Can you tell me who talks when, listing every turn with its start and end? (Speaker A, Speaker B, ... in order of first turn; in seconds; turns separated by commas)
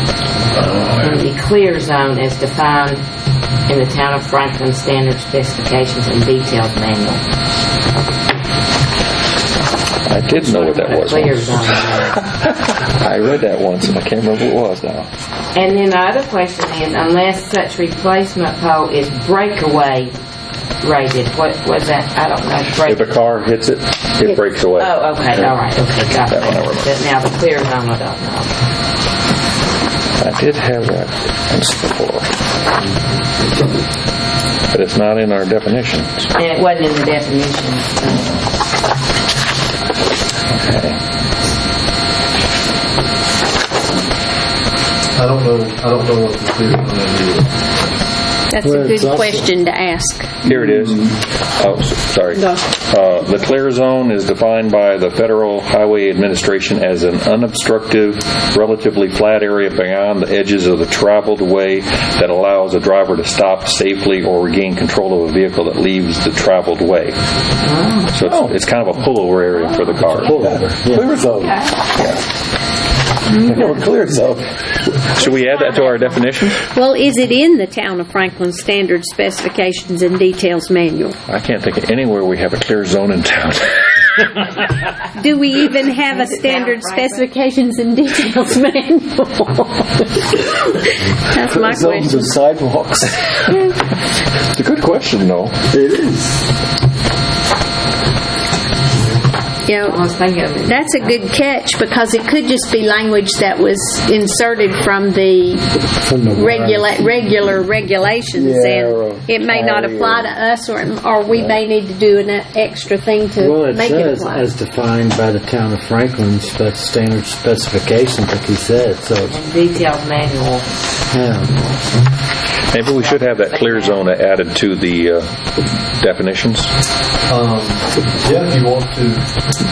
Speaker A: 1.0-3.0, Speaker A: 3.7-7.2, Speaker B: 10.1-15.1, Speaker A: 10.3-12.2, Speaker A: 15.5-20.2, Speaker A: 20.8-23.2, Speaker B: 22.9-24.9, Speaker A: 24.8-28.5, Speaker B: 26.2-26.9, Speaker B: 30.2-32.3, Speaker B: 34.7-36.3, Speaker A: 36.4-38.4, Speaker B: 40.5-41.0, Speaker C: 45.2-47.9, Speaker D: 48.5-50.3, Speaker E: 48.6-49.5, Speaker B: 50.4-67.2, Speaker D: 52.3-52.6, Speaker A: 67.6-68.2, Speaker B: 68.1-70.4, Speaker A: 69.5-70.2, Speaker E: 70.1-71.2, Speaker F: 70.3-72.2, Speaker F: 73.4-74.5, Speaker A: 75.2-76.4, Speaker B: 75.2-76.6, Speaker D: 76.7-81.2, Speaker B: 81.3-84.2, Speaker D: 85.2-92.4, Speaker A: 86.0-87.3, Speaker F: 91.4-93.2, Speaker B: 94.5-95.6, Speaker F: 95.7-96.3, Speaker D: 99.7-100.1, Speaker A: 99.8-101.3, Speaker D: 100.6-105.8, Speaker E: 106.0-107.0, Speaker D: 106.3-114.5, Speaker F: 108.4-110.3, Speaker E: 113.4-119.4, Speaker A: 119.2-120.7, Speaker E: 121.1-121.6, Speaker B: 122.7-126.7, Speaker A: 123.0-124.1, Speaker C: 127.3-129.3